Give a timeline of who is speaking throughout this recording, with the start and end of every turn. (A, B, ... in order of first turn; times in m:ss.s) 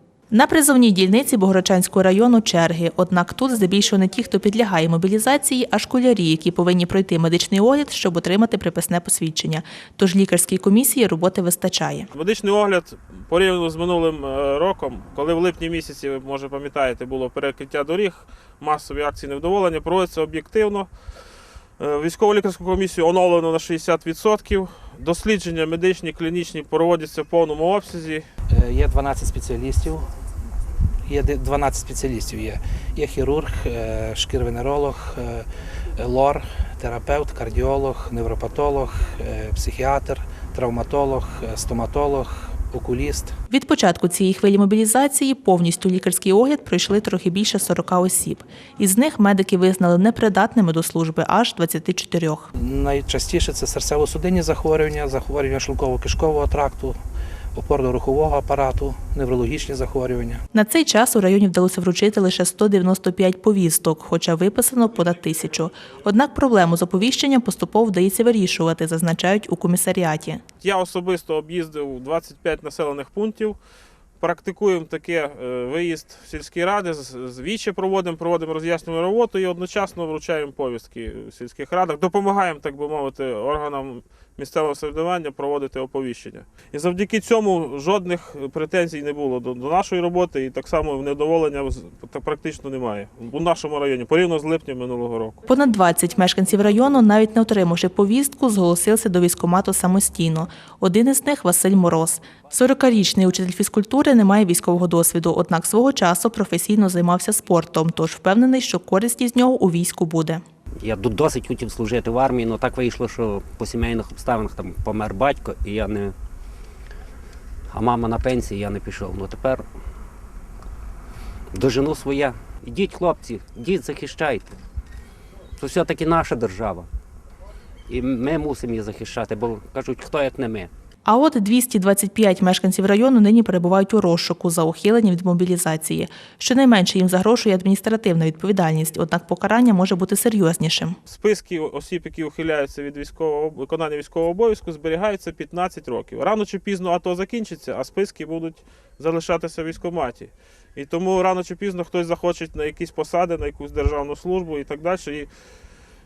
0:00.3-0:12.1 A
0:12.1-0:20.9 B
0:21.8-0:28.2 B
0:28.5-0:30.0 C
0:31.1-0:43.3 C
0:43.5-0:52.5 A
0:52.5-0:57.0 C
0:57.5-1:00.4 C
1:00.5-1:10.4 A
1:10.6-1:13.6 B
1:14.2-1:35.4 B
1:35.5-1:50.4 A
1:50.8-1:56.1 D
1:57.7-1:59.6 D
2:01.5-2:04.5 D
2:05.6-2:06.9 D
2:07.9-2:10.7 D
2:11.0-2:21.0 A
2:21.0-2:35.3 B